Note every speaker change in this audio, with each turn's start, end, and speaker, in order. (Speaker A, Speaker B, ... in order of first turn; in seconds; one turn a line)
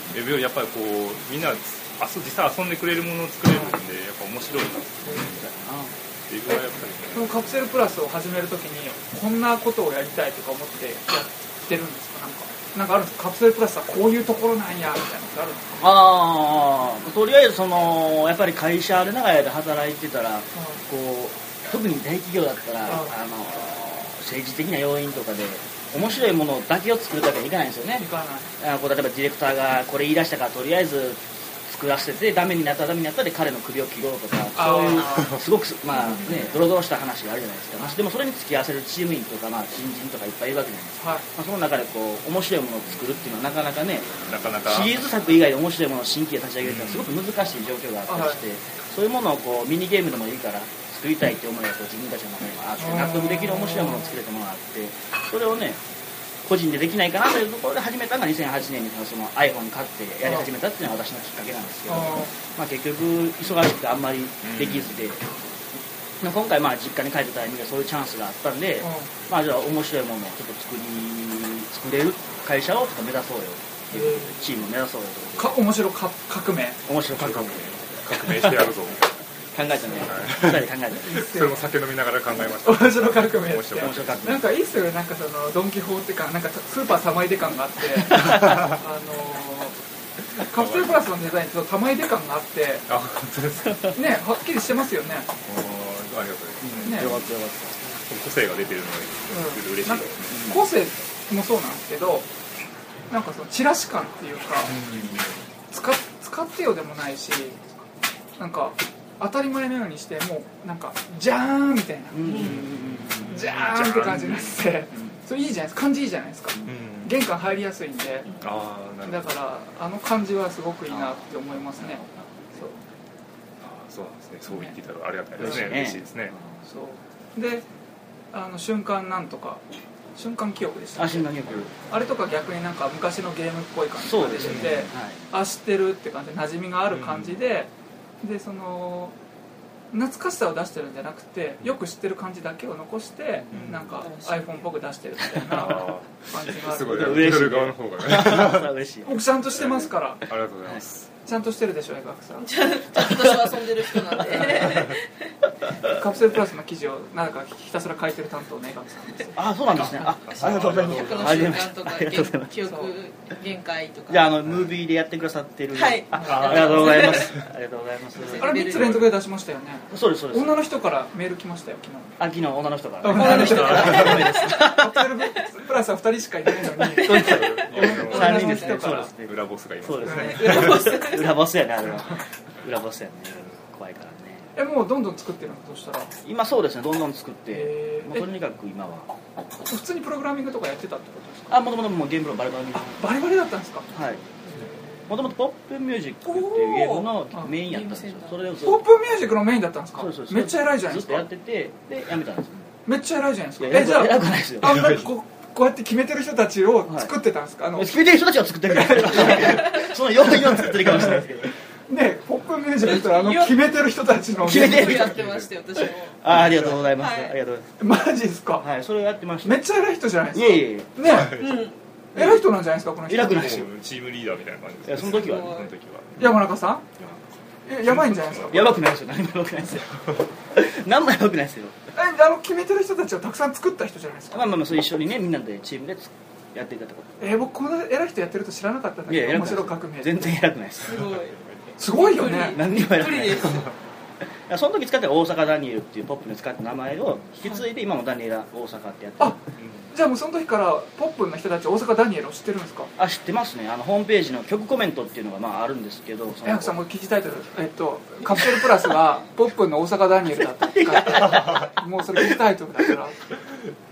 Speaker A: 0.1-5.4
Speaker B: 3.5-3.8
Speaker C: 5.0-5.9
Speaker A: 6.3-7.6
Speaker B: 6.5-15.8
Speaker C: 15.8-28.1
Speaker B: 20.5-20.8
Speaker B: 22.9-23.1
Speaker B: 28.0-28.5
Speaker C: 28.6-55.8
Speaker B: 34.5-35.4
Speaker B: 41.0-41.3
Speaker A: 44.2-45.1
Speaker A: 46.6-47.2
Speaker B: 48.1-48.4
Speaker B: 52.8-54.2
Speaker C: 56.4-65.2
Speaker B: 60.2-60.5
Speaker B: 61.9-62.3
Speaker A: 64.4-65.1
Speaker C: 66.2-75.6
Speaker B: 68.8-69.1
Speaker B: 73.9-74.5
Speaker B: 75.3-76.8
Speaker C: 76.8-78.7
Speaker A: 77.1-79.2
Speaker C: 79.5-81.3
Speaker B: 79.8-80.1
Speaker A: 80.0-84.2
Speaker B: 81.0-81.6
Speaker B: 82.6-89.8
Speaker C: 83.7-84.5
Speaker A: 90.3-91.1
Speaker B: 90.4-92.9
Speaker A: 92.9-93.9
Speaker B: 93.9-95.3
Speaker A: 95.4-97.2
Speaker C: 96.6-97.8
Speaker B: 96.8-97.2
Speaker A: 98.0-100.5
Speaker B: 99.3-102.3
Speaker C: 100.3-100.7
Speaker B: 103.1-104.8
Speaker A: 104.6-105.4
Speaker B: 105.7-107.7
Speaker B: 108.4-112.6
Speaker C: 112.1-114.3
Speaker A: 113.0-114.6
Speaker B: 113.3-118.4
Speaker A: 116.7-117.2
Speaker A: 118.4-119.3
Speaker B: 119.0-122.8
Speaker C: 120.9-121.2
Speaker C: 121.8-122.3
Speaker A: 123.6-126.3
Speaker B: 124.5-124.8
Speaker C: 125.4-126.1
Speaker B: 125.4-125.7
Speaker B: 126.6-127.7
Speaker B: 128.3-129.6
Speaker B: 130.2-139.2
Speaker C: 130.9-131.7
Speaker C: 134.0-135.2
Speaker A: 134.4-134.8
Speaker A: 136.9-137.4
Speaker B: 139.9-147.3
Speaker A: 143.5-144.0
Speaker D: 144.0-144.7
Speaker C: 145.2-145.8
Speaker A: 145.5-148.7
Speaker C: 146.7-149.3
Speaker B: 149.0-150.2
Speaker A: 149.6-151.1
Speaker B: 151.2-152.6
Speaker D: 152.4-155.3
Speaker B: 154.2-154.9
Speaker B: 155.8-159.4
Speaker C: 159.3-162.6
Speaker A: 159.7-161.6
Speaker D: 160.7-164.3
Speaker B: 162.7-162.9
Speaker C: 164.1-168.7
Speaker A: 164.4-164.7
Speaker D: 165.7-167.4
Speaker B: 166.2-166.7
Speaker A: 166.2-167.3
Speaker D: 168.1-168.9
Speaker B: 168.3-172.2
Speaker A: 168.7-169.2
Speaker C: 169.9-170.6
Speaker C: 172.2-175.1
Speaker B: 173.0-179.1
Speaker D: 173.2-174.8
Speaker A: 173.3-174.3
Speaker D: 176.8-178.8
Speaker C: 176.8-184.5
Speaker A: 177.1-180.8
Speaker B: 180.0-180.6
Speaker D: 180.3-181.3
Speaker B: 184.5-186.1
Speaker C: 186.2-189.1
Speaker B: 187.5-188.3
Speaker B: 189.6-191.6
Speaker C: 191.5-193.1
Speaker B: 193.0-195.2
Speaker C: 193.9-194.2
Speaker C: 195.1-198.9
Speaker B: 196.2-197.6
Speaker D: 197.7-198.4
Speaker B: 198.6-201.3
Speaker C: 199.9-202.7
Speaker B: 202.8-208.1
Speaker C: 203.6-205.0
Speaker A: 204.6-205.1
Speaker C: 206.8-207.2
Speaker C: 207.7-211.5
Speaker B: 208.7-211.1
Speaker B: 211.9-215.2
Speaker D: 212.8-213.8
Speaker C: 214.4-215.2
Speaker D: 214.4-216.2
Speaker A: 215.2-215.4
Speaker C: 216.1-217.8
Speaker A: 216.3-216.8
Speaker D: 217.0-217.3
Speaker B: 217.8-218.7
Speaker C: 218.6-219.7
Speaker B: 219.4-221.3
Speaker C: 220.3-221.3
Speaker A: 221.0-221.7
Speaker D: 221.4-221.8
Speaker B: 222.1-223.6
Speaker C: 222.2-222.5
Speaker C: 223.1-223.7
Speaker A: 223.2-226.4
Speaker C: 224.8-225.6
Speaker D: 225.0-225.7
Speaker B: 226.2-226.8
Speaker A: 226.9-228.8
Speaker B: 227.7-228.7
Speaker C: 228.3-231.8
Speaker B: 231.9-234.6
Speaker C: 234.3-237.1
Speaker B: 237.2-240.4
Speaker C: 239.1-241.1
Speaker D: 240.8-241.3
Speaker A: 240.8-241.8
Speaker B: 241.8-242.6
Speaker D: 241.9-243.7
Speaker C: 242.0-243.7
Speaker C: 244.5-249.4
Speaker B: 249.2-252.9
Speaker A: 249.6-249.9
Speaker C: 253.0-256.8
Speaker B: 256.4-263.2
Speaker C: 260.4-262.2